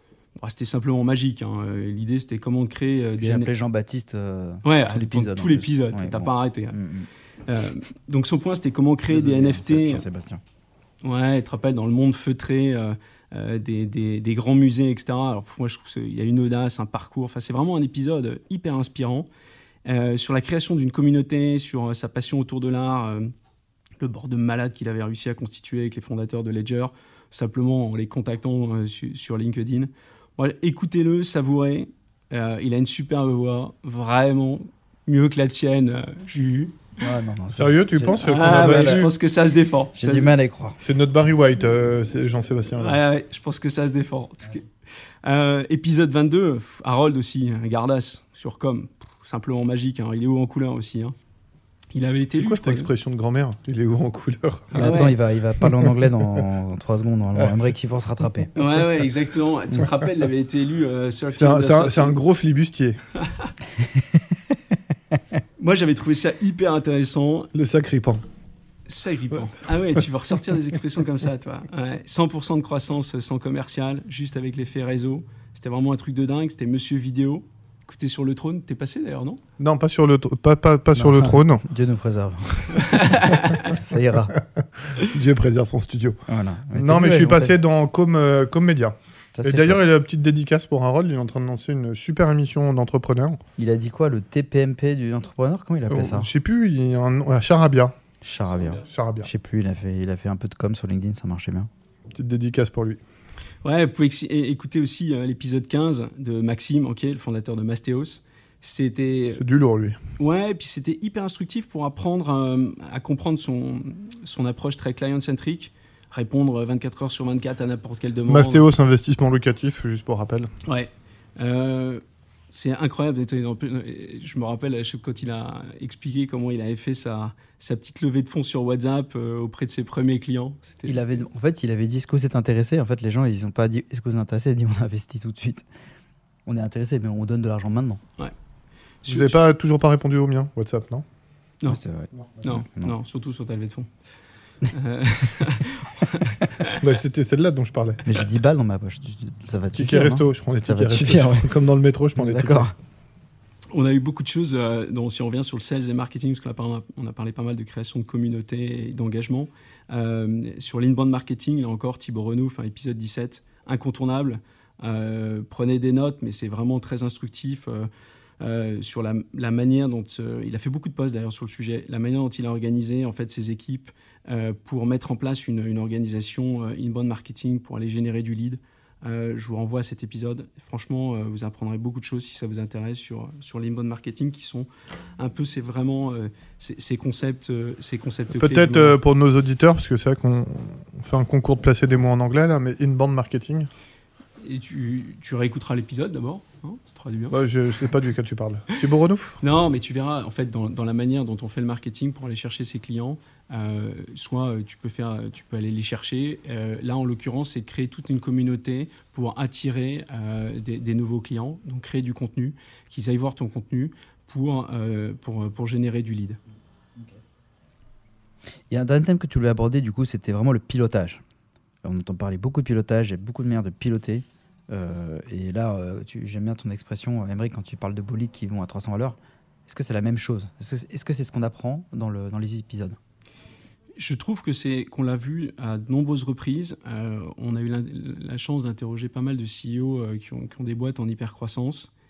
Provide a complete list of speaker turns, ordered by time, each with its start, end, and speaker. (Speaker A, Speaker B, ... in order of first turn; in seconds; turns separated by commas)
Speaker A: 0.4-3.5, Speaker B: 3.2-7.1, Speaker A: 4.6-6.8, Speaker A: 7.5-10.0, Speaker B: 9.1-10.4, Speaker A: 11.0-19.3, Speaker A: 19.9-23.3, Speaker A: 24.0-36.9, Speaker B: 37.0-39.1, Speaker C: 37.5-39.1, Speaker A: 38.2-40.3, Speaker B: 40.0-40.8, Speaker C: 40.8-43.0, Speaker A: 42.8-44.7, Speaker A: 45.2-51.1, Speaker A: 51.9-52.9, Speaker C: 52.3-55.9, Speaker A: 54.7-55.1, Speaker B: 54.7-58.5, Speaker A: 58.5-62.2, Speaker C: 61.3-63.0, Speaker A: 63.2-63.5, Speaker A: 65.6-67.5, Speaker C: 67.5-68.2, Speaker A: 68.9-79.4, Speaker C: 79.6-81.6, Speaker B: 80.9-84.3, Speaker A: 82.7-83.7, Speaker C: 84.9-86.2, Speaker B: 86.3-87.5, Speaker C: 86.7-93.4, Speaker B: 89.3-89.8, Speaker B: 93.6-96.3, Speaker C: 95.9-97.9, Speaker B: 98.2-101.7, Speaker C: 98.8-99.3, Speaker C: 102.1-103.0, Speaker A: 103.6-109.4, Speaker C: 109.4-110.0, Speaker A: 110.2-118.7, Speaker C: 118.3-120.5, Speaker A: 120.7-131.2, Speaker B: 130.9-135.7, Speaker B: 136.4-138.0, Speaker A: 139.0-139.4, Speaker C: 139.1-141.0, Speaker B: 141.7-142.9, Speaker A: 142.4-143.9, Speaker A: 144.7-146.8, Speaker C: 146.7-148.0, Speaker B: 148.0-151.5, Speaker C: 149.8-152.7, Speaker B: 152.2-152.7, Speaker A: 153.7-167.9, Speaker A: 168.4-189.0, Speaker C: 188.3-193.7, Speaker A: 194.4-197.3, Speaker C: 197.3-199.4, Speaker A: 199.4-216.4, Speaker B: 218.7-221.2, Speaker B: 221.8-233.0, Speaker A: 234.0-241.9